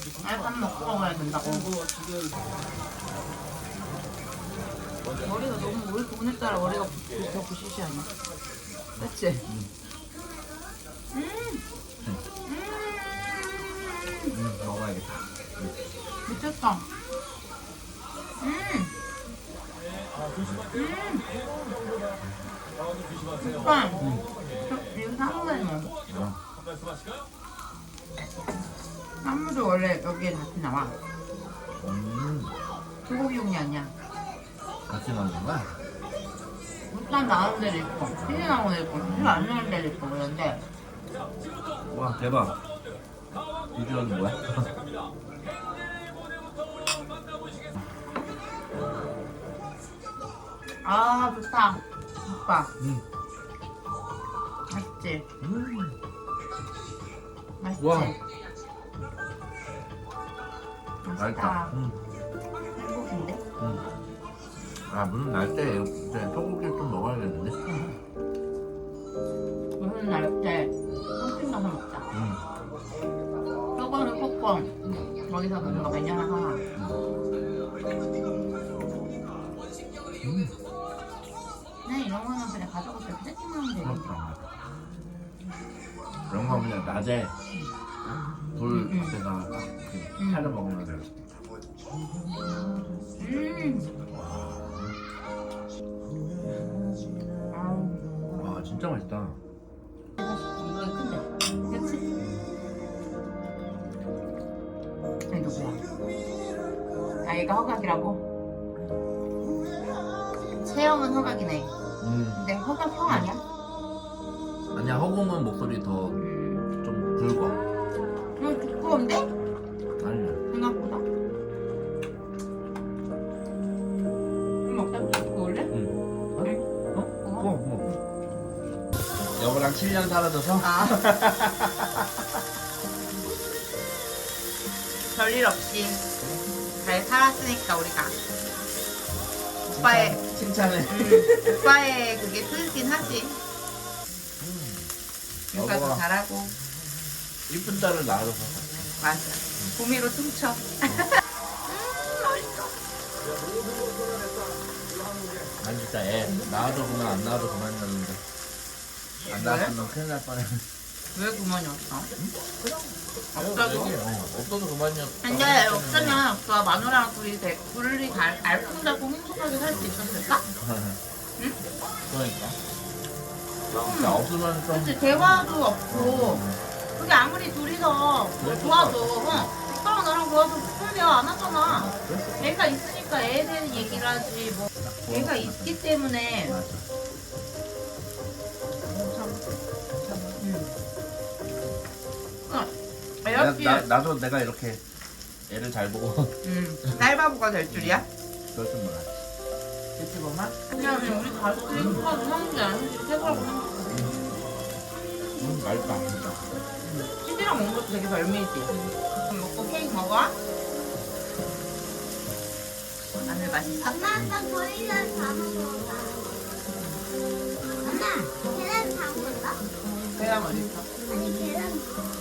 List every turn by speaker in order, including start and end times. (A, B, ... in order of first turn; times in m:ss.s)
0:00.2-0:01.8 A
0:05.2-0:08.1 A
0:09.0-0:09.5 A
0:09.0-0:09.7 B
0:11.1-0:11.6 A
0:12.5-0:14.4 A
0:14.3-0:15.7 B
0:16.3-0:16.9 A
0:18.4-0:18.9 A
0:20.7-0:21.2 A
0:23.4-0:24.1 A
0:24.0-0:24.3 B
0:24.6-0:25.9 A
0:26.1-0:26.4 B
0:29.2-0:31.0 A
0:31.8-0:32.6 B
0:33.0-0:33.9 A
0:34.9-0:35.8 B
0:36.9-0:40.6 A
0:38.2-0:39.4 B
0:41.9-0:42.6 B
0:43.7-0:44.7 B
0:50.8-0:52.7 A
0:52.8-0:53.0 B
0:54.7-0:55.2 A
0:55.4-0:56.0 B
0:57.6-0:58.2 A
0:57.8-0:58.2 B
1:01.0-1:01.8 A
1:01.2-1:02.0 B
1:02.8-1:03.4 A
1:04.9-1:07.7 B
1:09.8-1:12.1 A
1:12.1-1:12.4 B
1:13.8-1:14.7 A
1:14.8-1:16.0 B
1:15.3-1:16.6 A
1:16.8-1:17.0 B
1:20.2-1:20.5 B
1:21.8-1:24.1 A
1:23.8-1:24.5 B
1:26.3-1:27.3 B
1:28.5-1:31.1 B
1:28.7-1:29.2 A
1:30.2-1:30.5 A
1:33.0-1:33.9 A
1:34.1-1:34.9 B
1:37.5-1:38.0 A
1:38.4-1:39.4 B
1:40.2-1:42.1 A
1:45.3-1:45.8 A
1:47.2-1:48.2 A
1:50.6-1:51.7 A
1:52.0-1:52.4 B
1:52.3-1:53.4 A
1:53.1-1:53.3 B
1:54.7-1:56.2 B
1:56.2-1:56.7 A
1:56.8-1:57.6 B
1:58.4-1:59.3 A
2:00.0-2:00.4 B
2:00.5-2:01.0 A
2:04.6-2:05.7 A
2:05.7-2:07.9 B
2:06.4-2:08.0 A
2:09.4-2:12.2 B
2:10.6-2:11.0 A
2:15.1-2:16.0 A
2:16.7-2:18.1 A
2:19.7-2:20.2 A
2:19.7-2:21.7 B
2:20.9-2:23.4 A
2:24.4-2:24.9 B
2:25.5-2:26.5 A
2:25.5-2:26.0 B
2:27.5-2:28.9 B
2:29.0-2:30.7 A
2:31.6-2:32.7 A
2:35.6-2:38.2 B
2:39.3-2:40.6 B
2:39.3-2:39.7 A
2:41.1-2:42.1 A
2:43.3-2:43.9 A
2:43.4-2:46.2 B
2:45.2-2:50.4 A
2:50.5-2:51.0 B
2:52.1-2:52.6 B
2:53.8-2:56.4 A
2:53.8-2:56.6 B
2:57.0-3:06.6 A
2:58.4-2:59.5 B
3:01.7-3:02.5 B
3:04.8-3:05.8 B
3:06.4-3:06.9 B
3:08.8-3:09.4 B
3:10.0-3:10.4 B
3:10.4-3:10.8 A
3:12.5-3:13.9 A
3:13.3-3:14.8 B
3:15.5-3:17.0 B
3:16.4-3:18.1 A
3:17.7-3:19.2 B
3:20.0-3:20.6 B
3:20.7-3:24.3 A
3:21.7-3:22.0 B
3:23.2-3:24.2 B
3:25.4-3:26.5 B
3:26.8-3:28.7 A
3:28.7-3:28.9 B
3:29.2-3:30.3 A
3:33.2-3:34.2 A
3:33.8-3:36.2 C
3:37.8-3:38.3 A
3:37.8-3:39.6 C
3:40.2-3:40.9 A
3:41.0-3:42.0 C